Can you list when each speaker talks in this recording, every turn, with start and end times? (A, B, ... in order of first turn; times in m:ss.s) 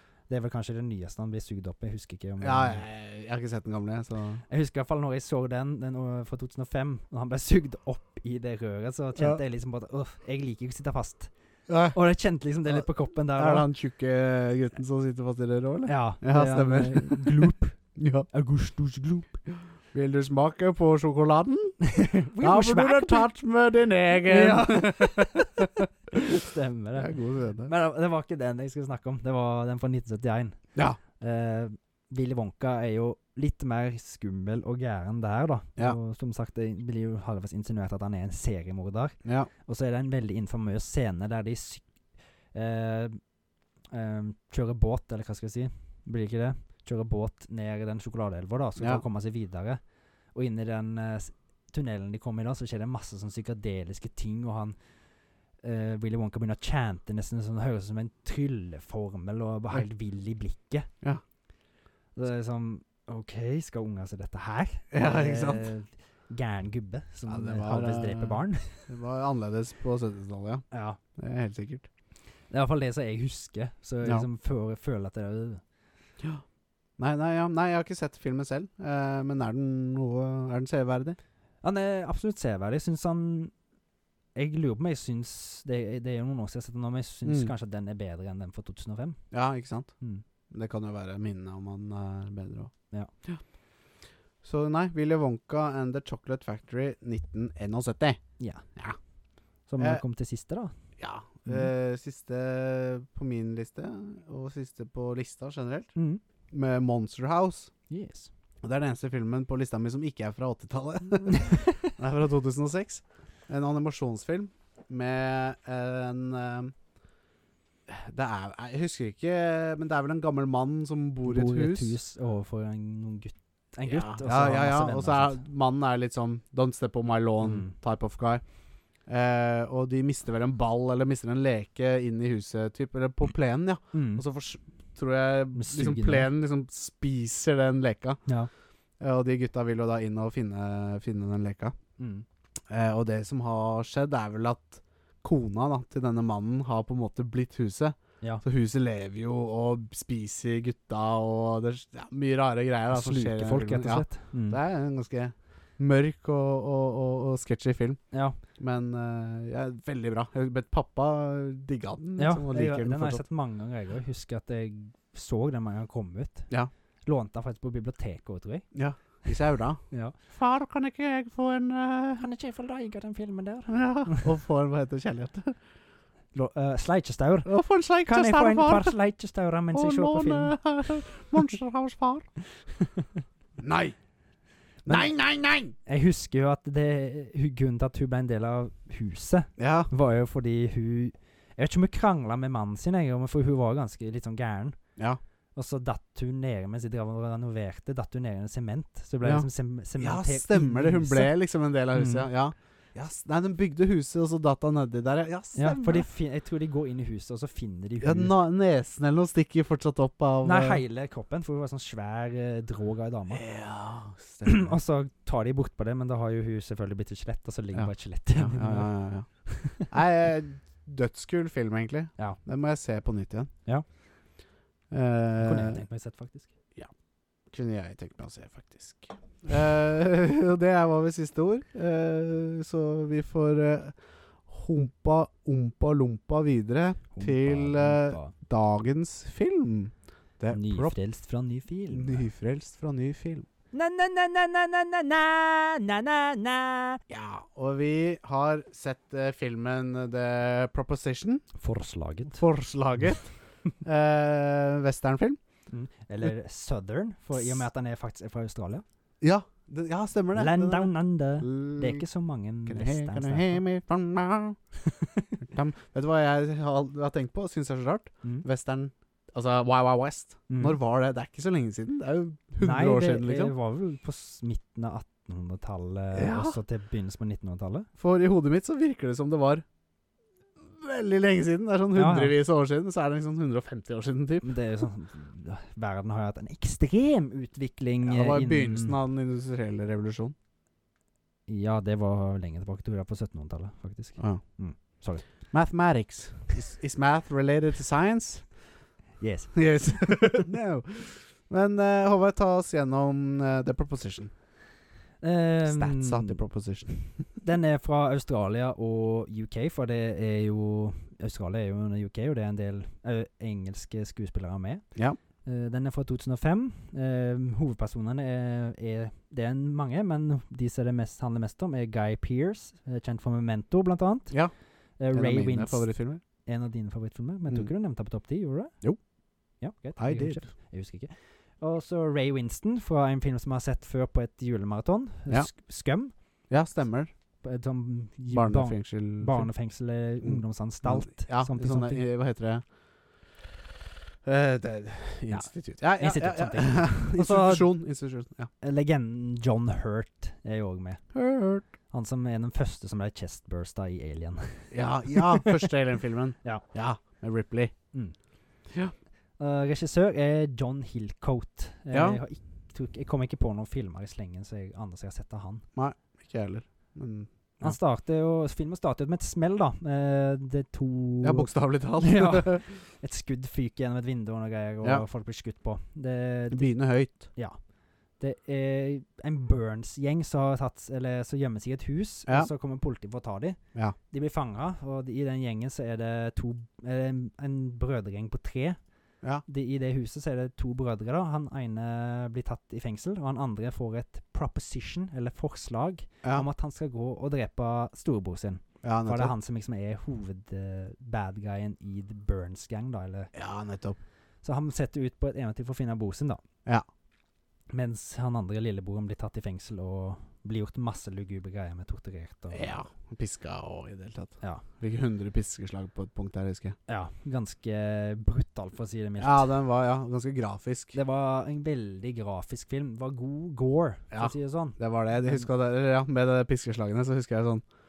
0:00.3-0:02.8 A
0:02.4-0:04.4 B
0:04.5-0:11.3 A
0:11.7-0:12.0 B
0:11.9-0:13.7 A
0:12.6-0:18.3 B
0:15.8-0:19.4 A
0:19.9-0:21.8 B
0:21.8-0:23.3 A
0:22.4-0:25.9 B
0:24.3-0:27.1 A
0:27.0-0:27.7 B
0:27.6-0:30.6 A
0:31.2-0:41.9 A
0:42.5-0:43.2 A
0:43.9-0:49.8 A
0:48.8-0:49.0 B
0:50.3-0:54.8 A
0:55.6-1:00.9 A
1:02.2-1:08.9 A
1:04.9-1:05.7 B
1:07.3-1:11.9 B
1:10.7-1:11.0 A
1:12.5-1:15.6 A
1:17.0-1:21.2 B
1:21.6-1:23.5 A
1:24.3-1:29.2 A
1:27.2-1:27.5 B
1:29.3-1:29.9 B
1:30.5-1:32.7 B
1:34.4-1:38.2 B
1:38.4-1:38.6 A
1:39.7-1:40.7 A
1:41.0-1:45.9 B
1:46.0-1:46.2 A
1:46.5-1:47.7 B
1:47.9-1:48.3 A
1:48.6-1:56.7 B
1:51.3-1:51.9 A
1:57.9-2:01.9 B
2:01.2-2:05.4 A
2:03.8-2:08.4 B
2:07.4-2:07.7 A
2:09.1-2:18.2 B
2:13.9-2:14.2 A
2:15.5-2:16.3 A
2:19.0-2:21.7 B
2:22.0-2:22.2 A
2:22.7-2:38.0 B
2:32.9-2:34.6 A
2:38.1-2:38.4 A
2:38.6-2:43.2 B
2:42.2-2:46.5 A
2:47.0-2:48.7 A
2:48.7-2:52.2 B
2:52.2-2:54.3 A
2:53.7-2:55.6 B
2:56.3-2:57.5 A
2:57.4-2:58.9 B
2:58.0-3:01.5 A
2:59.7-3:02.3 B
3:02.5-3:03.2 A
3:03.6-3:03.9 B
3:04.8-3:05.1 A
3:04.8-3:05.7 B
3:05.8-3:14.8 A
3:09.6-3:09.9 B
3:15.5-3:21.3 A
3:19.2-3:26.1 B
3:21.9-3:22.3 A
3:25.5-3:28.3 A
3:28.0-3:30.8 B
3:30.4-3:33.4 A
3:33.3-3:34.8 B
3:34.4-3:38.9 A
3:37.7-3:43.5 B
3:39.4-3:39.9 A
3:44.9-3:45.8 B
3:45.4-3:46.5 A
3:47.5-3:54.0 B
3:54.5-4:00.9 B
3:57.1-3:58.3 A
4:00.5-4:02.3 A
4:01.9-4:03.4 B
4:03.7-4:07.0 A
4:07.1-4:11.4 B
4:11.6-4:12.4 A
4:12.3-4:15.4 B
4:15.7-4:18.8 A
4:19.2-4:22.0 B
4:20.3-4:23.6 A
4:22.6-4:24.6 B
4:24.9-4:25.3 A
4:25.5-4:33.5 B
4:30.5-4:30.8 A
4:32.6-4:37.9 A
4:36.1-4:36.6 B
4:38.0-4:39.6 B
4:40.6-4:44.5 B
4:41.9-4:42.3 A
4:44.4-4:49.0 A
4:48.0-4:50.3 B
4:51.5-4:55.3 A
4:55.5-4:58.5 B
4:59.2-5:00.3 A
4:59.5-5:04.3 B
5:05.2-5:06.4 A
5:05.6-5:07.3 B
5:07.4-5:14.8 A
5:15.4-5:24.4 A
5:25.0-5:28.8 A
5:25.1-5:26.2 B
5:29.6-5:36.1 A
5:30.0-5:30.4 B
5:36.5-5:37.1 B
5:37.4-5:42.0 A
5:38.3-5:39.5 B
5:40.2-5:42.6 B
5:44.2-5:48.5 B
5:46.0-5:47.7 A
5:48.6-5:51.0 A
5:51.1-5:51.6 B
5:51.9-5:55.7 A
5:54.7-5:57.7 B
5:59.4-6:05.6 A
6:01.9-6:02.2 B
6:05.7-6:07.8 B
6:07.6-6:16.7 A
6:11.2-6:12.6 B
6:16.5-6:17.3 B
6:17.2-6:17.6 A
6:18.2-6:28.8 A
6:29.4-6:43.3 A
6:38.8-6:39.3 B
6:43.3-6:44.0 B
6:44.4-6:46.4 A
6:47.7-6:52.7 A
6:52.5-6:56.7 B
6:56.9-6:59.5 A
6:59.2-7:00.9 B
7:00.9-7:05.5 A
7:04.1-7:07.6 B